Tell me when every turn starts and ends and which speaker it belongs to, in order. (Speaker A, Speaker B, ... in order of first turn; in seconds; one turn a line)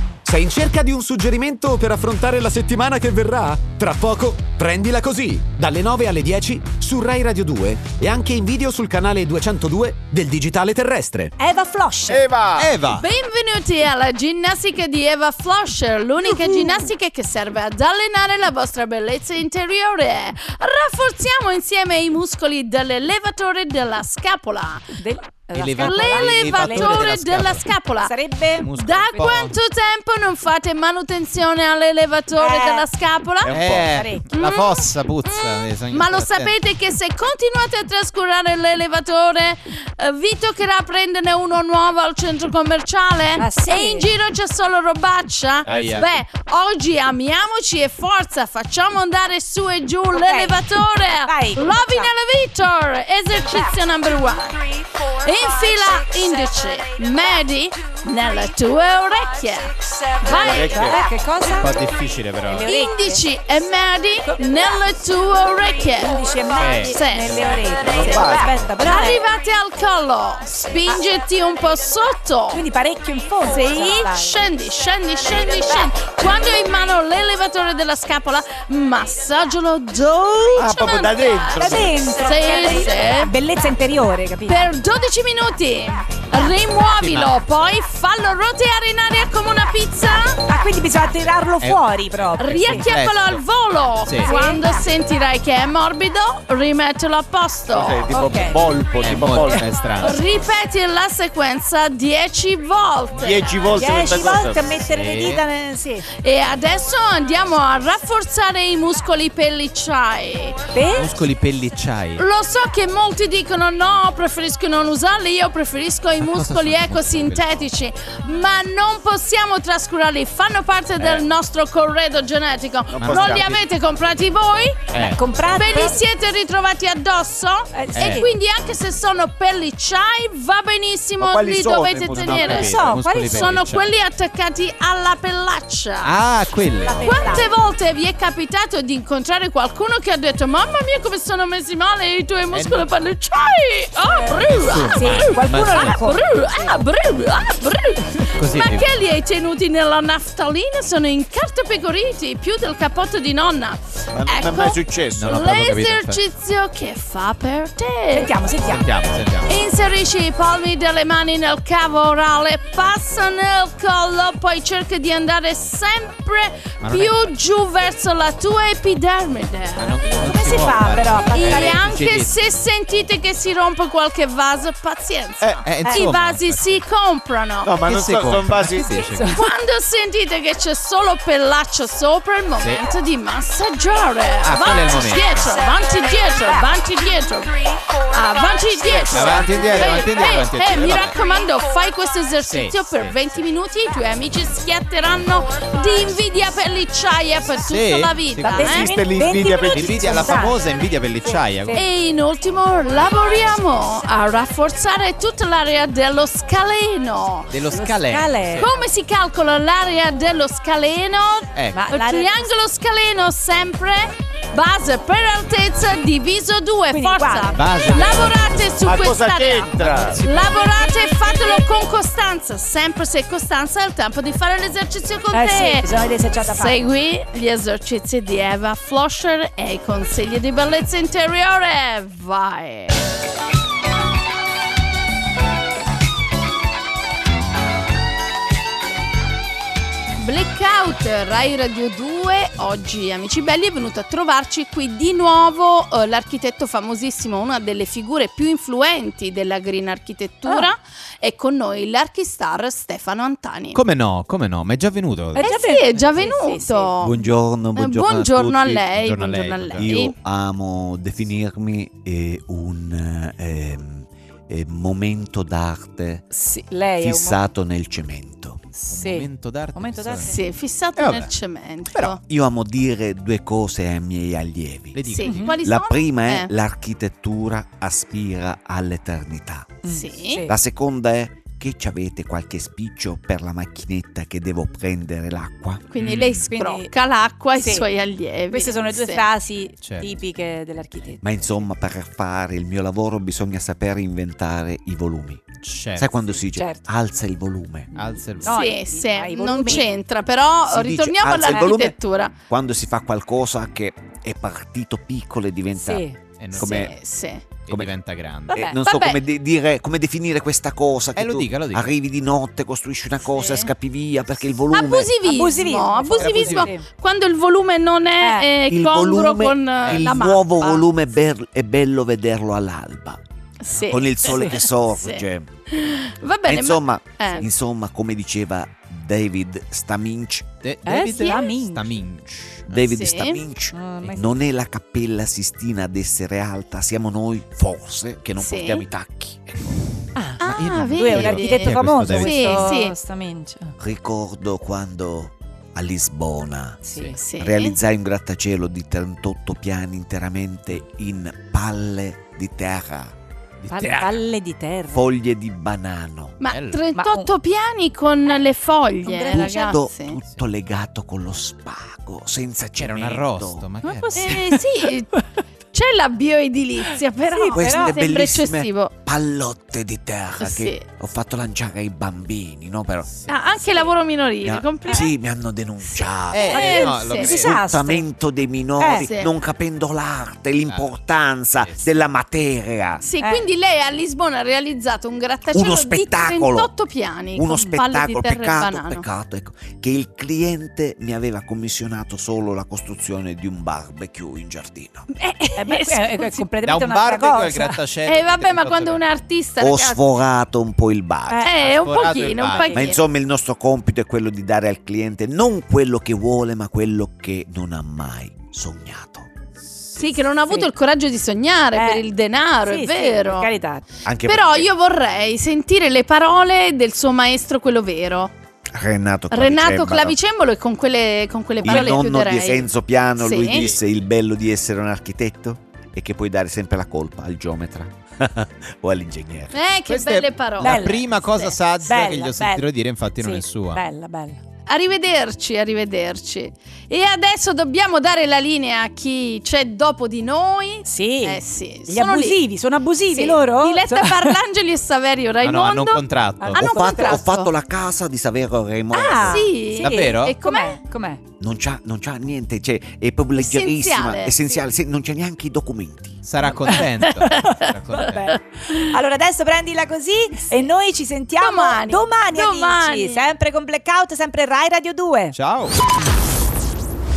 Speaker A: 0.2-11.3
Speaker B: 11.4-12.2
Speaker C: 12.1-12.7
Speaker D: 12.6-13.1
Speaker E: 12.9-24.9
Speaker B: 16.2-16.9
Speaker B: 25.0-27.1
Speaker D: 25.5-27.6
Speaker E: 25.7-28.1
Speaker B: 28.0-29.4
Speaker D: 28.6-29.5
Speaker E: 28.7-33.7
Speaker B: 32.3-32.9
Speaker C: 33.4-34.0
Speaker D: 33.5-36.5
Speaker B: 33.9-34.3
Speaker E: 34.3-61.0
Speaker B: 43.4-44.1
Speaker D: 45.7-46.1
Speaker B: 50.1-50.6
Speaker B: 51.2-52.1
Speaker C: 60.2-61.0
Speaker B: 60.5-61.8
Speaker D: 61.6-62.7
Speaker B: 62.5-63.3
Speaker E: 62.7-72.7
Speaker B: 64.2-64.8
Speaker B: 65.9-69.2
Speaker D: 66.6-67.0
Speaker C: 67.2-68.9
Speaker B: 72.5-74.5
Speaker E: 73.4-83.3
Speaker C: 80.6-82.0
Speaker B: 81.6-84.7
Speaker E: 84.5-90.4
Speaker D: 87.0-87.4
Speaker B: 90.5-92.9
Speaker D: 91.6-93.4
Speaker E: 92.4-98.1
Speaker D: 94.0-94.3
Speaker B: 94.2-94.6
Speaker C: 97.7-99.7
Speaker B: 98.1-98.7
Speaker D: 99.0-100.2
Speaker E: 100.0-104.1
Speaker C: 103.2-104.7
Speaker B: 103.7-106.1
Speaker D: 104.9-105.4
Speaker E: 106.2-110.7
Speaker B: 110.7-111.1
Speaker D: 110.9-112.2
Speaker E: 112.2-125.0
Speaker D: 116.2-117.6
Speaker C: 122.9-123.7
Speaker D: 123.0-123.5
Speaker D: 124.9-125.2
Speaker B: 125.0-126.0
Speaker E: 125.5-136.2
Speaker B: 127.7-128.3
Speaker D: 128.0-128.3
Speaker C: 131.2-132.9
Speaker D: 132.1-133.9
Speaker B: 132.5-133.6
Speaker D: 136.0-137.2
Speaker B: 136.7-137.5
Speaker E: 137.0-158.3
Speaker D: 142.5-142.9
Speaker B: 144.1-146.8
Speaker D: 144.3-146.1
Speaker D: 148.3-148.9
Speaker C: 154.1-155.4
Speaker D: 155.2-156.2
Speaker B: 158.1-158.9
Speaker D: 158.7-159.6
Speaker E: 159.5-170.0
Speaker D: 166.8-167.3
Speaker D: 169.8-172.6
Speaker B: 170.0-171.8
Speaker E: 171.3-177.8
Speaker C: 175.4-175.7
Speaker D: 175.6-176.9
Speaker B: 175.8-176.1
Speaker C: 177.6-179.0
Speaker D: 177.8-179.4
Speaker B: 178.9-179.5
Speaker E: 179.3-198.9
Speaker D: 182.6-182.9
Speaker D: 184.4-185.6
Speaker D: 189.1-191.2
Speaker D: 192.4-193.2
Speaker D: 197.7-198.8
Speaker B: 198.4-200.6
Speaker C: 198.5-200.5
Speaker D: 199.6-201.8
Speaker B: 201.2-201.9
Speaker E: 201.7-207.5
Speaker D: 207.5-208.7
Speaker B: 207.7-208.7
Speaker E: 208.6-225.9
Speaker D: 211.5-211.8
Speaker B: 211.7-212.5
Speaker B: 216.9-218.0
Speaker D: 217.6-218.9
Speaker C: 218.8-220.2
Speaker D: 219.7-220.7
Speaker B: 225.3-226.9
Speaker E: 226.5-233.0
Speaker E: 240.2-253.8
Speaker B: 250.5-250.7
Speaker D: 253.7-256.3
Speaker B: 255.3-256.9
Speaker E: 255.4-260.1
Speaker C: 257.0-258.9
Speaker D: 259.0-259.9
Speaker C: 259.8-266.2
Speaker B: 266.3-267.4
Speaker C: 267.0-268.6
Speaker B: 268.7-270.4
Speaker D: 268.9-270.4
Speaker E: 270.3-272.2
Speaker D: 271.0-271.3
Speaker D: 271.9-272.2
Speaker C: 272.2-275.1
Speaker D: 274.9-275.6
Speaker E: 275.1-276.5
Speaker B: 275.2-275.6
Speaker C: 275.6-279.8
Speaker B: 279.8-280.6
Speaker E: 279.9-280.4
Speaker C: 280.5-285.9
Speaker E: 285.9-289.3
Speaker D: 286.0-286.5
Speaker B: 286.4-286.9
Speaker B: 287.6-287.9
Speaker B: 288.5-291.7
Speaker D: 289.8-290.1
Speaker C: 291.2-297.9
Speaker D: 295.6-296.1
Speaker B: 296.6-296.9
Speaker B: 297.9-299.9
Speaker D: 298.0-298.6
Speaker E: 298.4-302.3
Speaker C: 300.7-306.9
Speaker B: 301.5-301.8
Speaker B: 305.8-306.2
Speaker D: 306.4-306.9
Speaker E: 306.6-307.4
Speaker D: 307.7-308.6
Speaker C: 307.7-307.9
Speaker C: 308.5-315.1
Speaker B: 308.5-308.8
Speaker E: 308.9-309.2
Speaker D: 311.2-311.9
Speaker E: 313.3-313.7
Speaker E: 314.7-320.9
Speaker B: 315.2-316.8
Speaker D: 316.1-316.7
Speaker B: 318.2-318.5
Speaker C: 318.7-323.2
Speaker D: 319.8-320.1
Speaker E: 323.6-327.5
Speaker C: 323.9-325.5
Speaker B: 324.3-324.6
Speaker C: 326.5-330.5
Speaker D: 330.6-332.9
Speaker B: 330.9-331.9
Speaker E: 331.1-331.5
Speaker C: 332.7-339.8
Speaker E: 332.8-333.4
Speaker B: 333.7-334.4
Speaker E: 338.4-338.9
Speaker B: 340.1-343.8
Speaker E: 340.4-342.9
Speaker D: 340.4-342.6
Speaker C: 343.8-346.8
Speaker B: 346.8-347.2
Speaker E: 347.2-347.8
Speaker C: 347.4-353.1
Speaker D: 353.6-354.2
Speaker B: 353.7-355.1
Speaker C: 354.9-356.4
Speaker E: 356.4-360.2
Speaker D: 356.5-356.8
Speaker B: 356.9-357.3
Speaker B: 359.0-359.6
Speaker C: 359.3-363.7
Speaker D: 362.8-364.4
Speaker B: 363.8-365.2
Speaker E: 364.1-365.2
Speaker E: 365.7-368.9
Speaker B: 367.2-368.0
Speaker C: 367.5-373.1
Speaker E: 370.4-370.8
Speaker E: 373.3-375.1
Speaker C: 374.4-383.0
Speaker E: 375.8-377.4
Speaker D: 376.3-377.6
Speaker B: 376.5-378.1
Speaker B: 378.8-379.1
Speaker E: 379.0-379.3
Speaker D: 380.7-380.9
Speaker D: 381.6-381.9
Speaker E: 383.0-389.1
Speaker B: 383.2-383.5
Speaker C: 385.5-386.7
Speaker C: 387.4-395.1
Speaker B: 387.5-387.8
Speaker E: 395.1-396.5
Speaker B: 395.6-397.8
Speaker D: 396.6-399.0
Speaker E: 398.1-400.0
Speaker C: 399.6-401.5
Speaker B: 401.3-402.9
Speaker E: 401.4-403.0
Speaker D: 401.6-402.7
Speaker C: 402.7-409.3
Speaker D: 409.7-410.1
Speaker E: 410.0-413.5
Speaker B: 411.7-412.1
Speaker B: 412.6-413.8
Speaker C: 414.1-414.7
Speaker E: 414.2-418.3
Speaker C: 418.7-420.1
Speaker E: 419.3-423.7
Speaker C: 421.6-429.6
Speaker B: 421.6-422.1
Speaker D: 423.5-423.8
Speaker E: 429.5-431.2
Speaker D: 429.9-433.8
Speaker B: 430.6-432.6
Speaker B: 433.2-434.4
Speaker E: 434.7-442.4
Speaker B: 440.8-444.4
Speaker E: 443.1-447.5
Speaker D: 445.4-446.6
Speaker B: 446.4-447.3
Speaker C: 446.6-449.5
Speaker B: 448.9-451.2
Speaker E: 448.9-450.8
Speaker D: 449.8-450.4
Speaker C: 451.4-456.2
Speaker E: 453.4-454.7
Speaker D: 456.2-458.3
Speaker B: 456.4-465.4
Speaker E: 457.0-457.7
Speaker E: 458.3-458.9
Speaker E: 461.4-463.3
Speaker D: 465.3-465.8